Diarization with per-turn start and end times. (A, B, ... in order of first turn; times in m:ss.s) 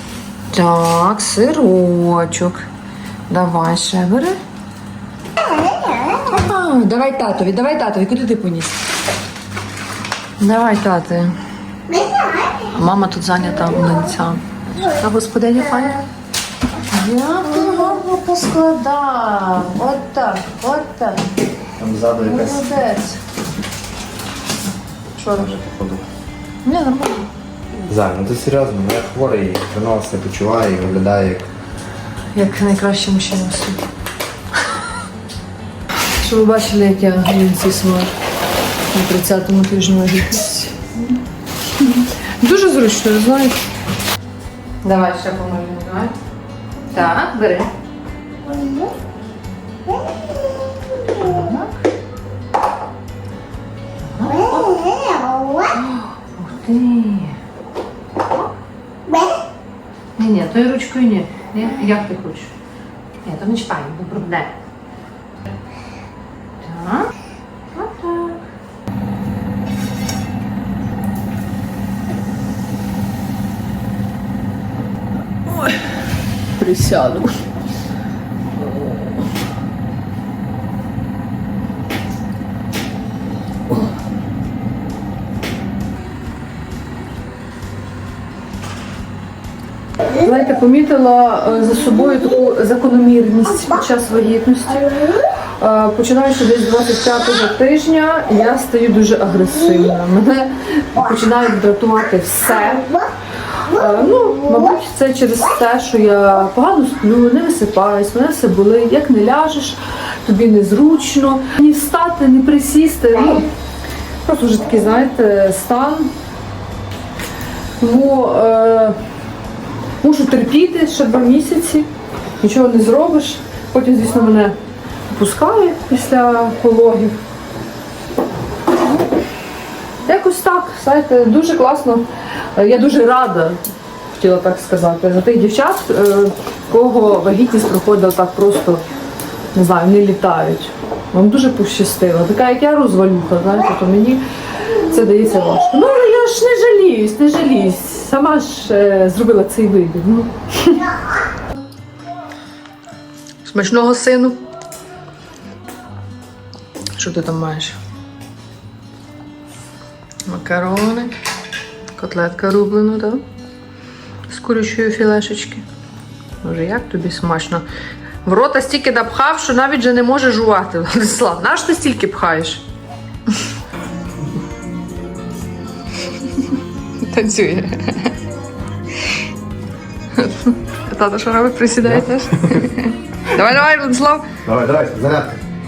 0:00.5-0:02.6 A
0:03.3-0:04.4 A
0:06.1-0:08.8 A
0:10.4-0:11.4 A
0:12.6-0:16.1 A
0:16.8-0:21.3 A
0:21.8-0:22.6 B
0:22.2-0:23.2 A
0:25.2-0:25.6 A
0:25.3-0:26.0 B
0:26.6-0:27.3 A
0:27.8-0:31.5 B
0:32.3-0:33.9 A
0:36.2-0:38.1 A
0:38.9-0:41.1 A
0:41.8-0:43.6 A
0:44.8-0:46.2 A
0:46.9-0:47.7 A
0:51.0-0:51.8 A
0:54.0-0:54.9 A
0:55.6-0:57.4 A
0:58.2-0:58.5 A
1:00.2-1:02.5 A
1:03.2-1:04.5 A
1:06.6-1:07.1 A
1:07.7-1:08.4 A
1:15.5-1:15.8 A
1:16.6-1:17.4 A
1:18.6-1:19.2 A
1:30.1-1:35.0 A
1:35.6-1:43.0 A
1:43.6-1:53.5 A
1:54.2-1:56.1 A
1:57.8-1:59.0 A
2:00.0-2:01.9 A
2:02.4-2:04.6 A
2:05.1-2:07.2 A
2:10.0-2:18.8 A
2:19.5-2:30.9 A
2:33.4-2:34.4 A
2:36.9-2:37.8 A
2:40.3-2:41.2 A
2:42.0-2:43.2 A
2:44.3-2:45.6 A
2:46.4-2:47.6 A
2:48.2-2:52.6 A
2:57.0-2:58.1 A
3:00.1-3:04.4 A
3:04.4-3:05.4 B